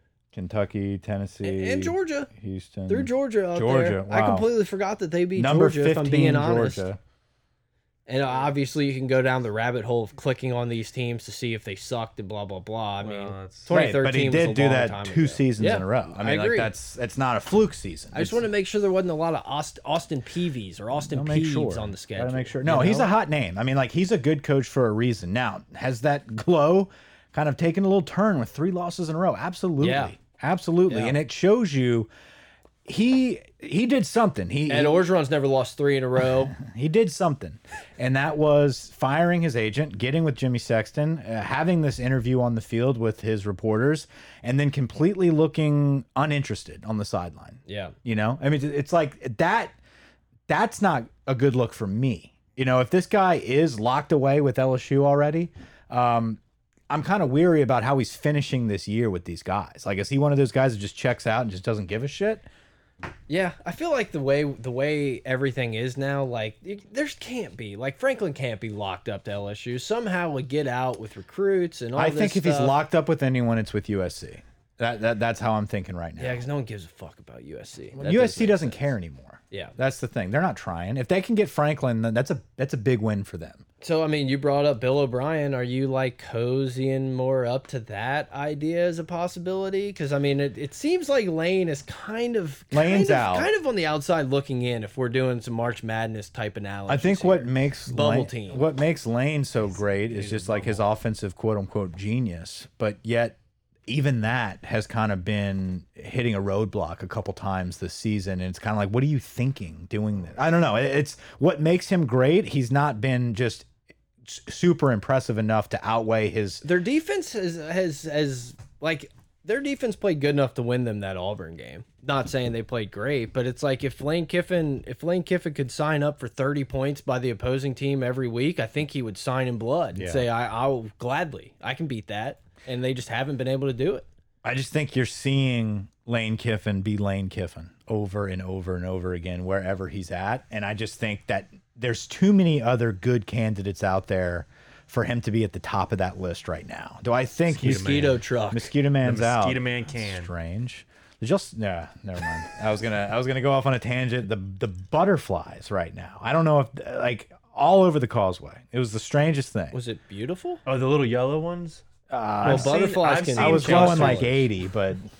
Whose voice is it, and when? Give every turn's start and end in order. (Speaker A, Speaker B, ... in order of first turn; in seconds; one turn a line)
Speaker A: 0.3-4.5
Speaker B: 1.4-2.3
Speaker B: 2.9-6.9
Speaker A: 5.3-7.0
Speaker B: 8.1-16.7
Speaker C: 13.0-13.7
Speaker A: 13.7-18.4
Speaker B: 18.1-23.1
Speaker A: 21.0-32.1
Speaker B: 29.8-30.1
Speaker B: 30.9-31.2
Speaker A: 32.8-35.0
Speaker B: 34.7-36.5
Speaker A: 36.4-49.8
Speaker B: 47.6-47.9
Speaker A: 50.5-62.5
Speaker B: 63.3-72.7
Speaker A: 72.0-76.4
Speaker B: 76.2-78.9
Speaker A: 78.0-83.6
Speaker B: 83.8-98.6
Speaker A: 92.7-93.5
Speaker A: 96.9-103.3
Speaker C: 100.1-100.8
Speaker A: 103.9-113.7
Speaker A: 114.2-116.6
Speaker B: 116.6-134.1
Speaker A: 129.9-130.3
Speaker A: 134.4-159.8
Speaker C: 147.5-148.2
Speaker B: 147.6-148.7
Speaker C: 149.0-150.3
Speaker B: 159.7-160.6
Speaker C: 160.7-161.8
Speaker A: 162.1-162.8
Speaker C: 162.4-164.4
Speaker B: 162.4-164.3
Speaker A: 163.3-165.0